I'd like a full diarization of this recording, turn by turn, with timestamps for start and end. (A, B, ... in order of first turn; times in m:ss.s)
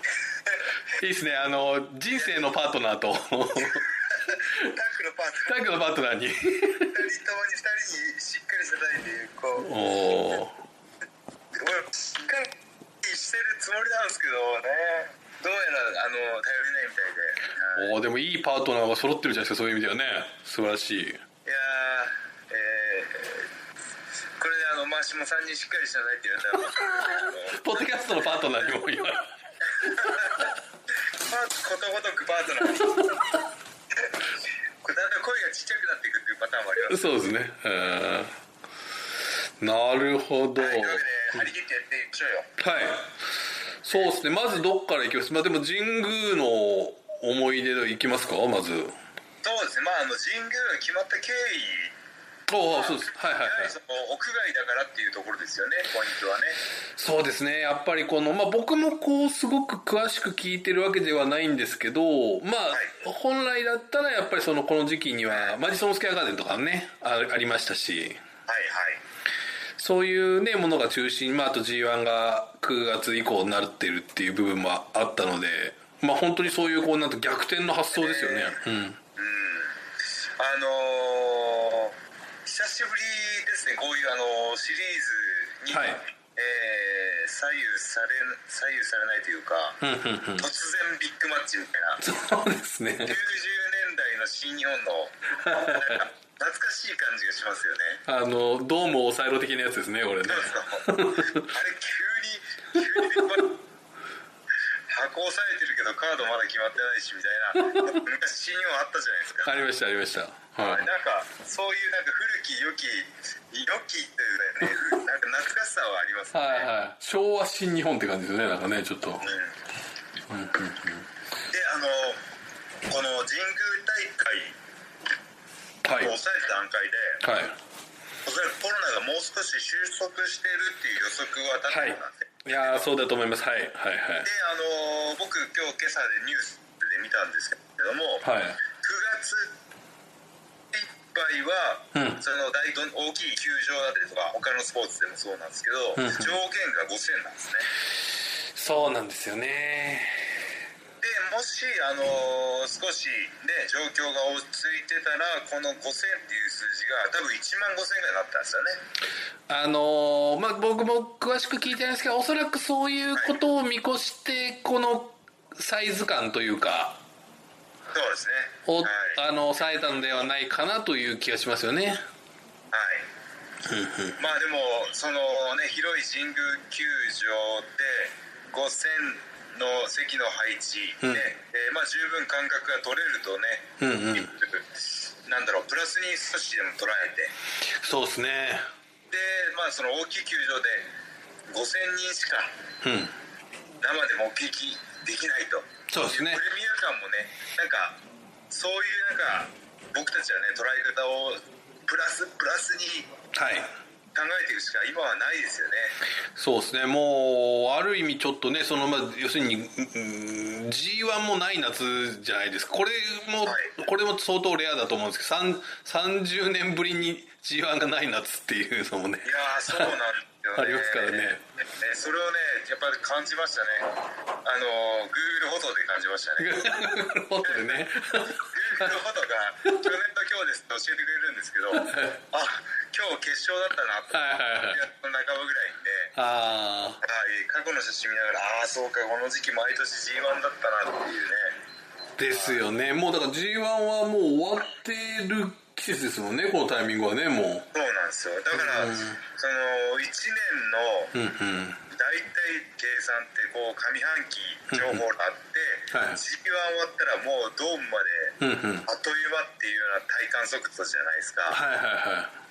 0:00.9-0:03.9 A
0:03.6-0:05.6 B
0:05.4-0:06.9 A
0:06.8-0:09.7 B
0:09.6-0:10.6 A
0:11.6-0:17.9 B
0:17.8-0:21.2 A
0:21.4-0:23.5 B
0:24.4-0:27.9 B
0:26.7-0:29.3 A
0:29.7-0:30.5 B
0:29.9-0:30.2 A
0:31.2-0:33.1 B
0:33.0-0:33.3 A
0:34.8-0:37.1 B
0:36.9-0:38.4 A
0:39.6-0:41.0 A
0:40.6-0:42.5 B
0:42.6-0:43.2 A
0:43.8-0:48.9 A
0:49.4-0:51.9 B
0:52.5-0:53.7 A
0:52.6-0:56.6 B
0:57.0-1:08.2 A
1:02.7-1:03.0 B
1:05.3-1:05.6 B
1:08.5-1:09.0 B
1:09.8-1:19.0 A
1:17.9-1:18.6 B
1:19.2-1:19.8 B
1:20.4-1:29.8 B
1:25.7-1:26.0 A
1:29.8-1:30.4 A
1:30.4-1:32.0 B
1:32.0-1:33.2 A
1:33.0-1:38.0 B
1:35.4-1:36.0 A
1:38.1-1:41.5 A
1:40.2-1:43.5 B
1:44.9-1:49.6 B
1:49.4-1:50.9 A
1:50.6-1:56.7 B
1:56.3-1:59.3 A
1:59.2-1:59.6 B
2:00.3-2:01.1 A
2:01.5-2:02.2 B
2:02.9-2:04.6 B
2:05.8-2:06.1 A
2:05.9-2:07.2 B
2:07.2-2:07.6 A
2:08.2-2:12.9 B
2:11.7-2:14.3 A
2:14.2-2:19.5 B
2:18.2-2:18.6 A
2:20.7-2:27.7 B
2:21.9-2:22.2 A
2:26.0-2:26.3 A
2:28.4-2:30.5 A
2:31.0-2:38.8 B
2:39.5-2:47.0 A
2:47.9-2:49.2 B
2:48.7-2:52.0 A
2:52.7-2:53.0 B
2:53.6-2:54.2 A
2:54.2-3:07.3 B
3:01.0-3:01.3 A
3:03.8-3:04.3 A
3:07.8-3:08.6 A
3:09.1-3:10.9 B
3:11.5-3:12.5 B
3:12.8-3:13.1 A
3:13.8-3:18.0 B
3:15.9-3:16.4 A
3:18.5-3:23.1 B
3:23.3-3:23.7 A
3:24.1-3:26.0 B
3:26.4-3:39.9 A
3:33.4-3:33.8 B
3:39.2-3:43.9 B
3:40.6-3:41.4 A
3:44.4-3:56.1 B
3:46.4-3:48.9 A
3:51.7-3:52.2 A
3:54.1-3:54.8 A
3:56.2-3:57.0 A
3:57.0-4:01.6 B
4:02.2-4:07.7 A
4:02.3-4:02.6 B
4:07.7-4:11.1 B
4:08.5-4:09.2 A
4:11.1-4:11.8 A
4:11.9-4:21.6 B
4:14.7-4:15.0 A
4:15.9-4:16.2 A
4:18.4-4:18.8 A
4:21.5-4:22.3 A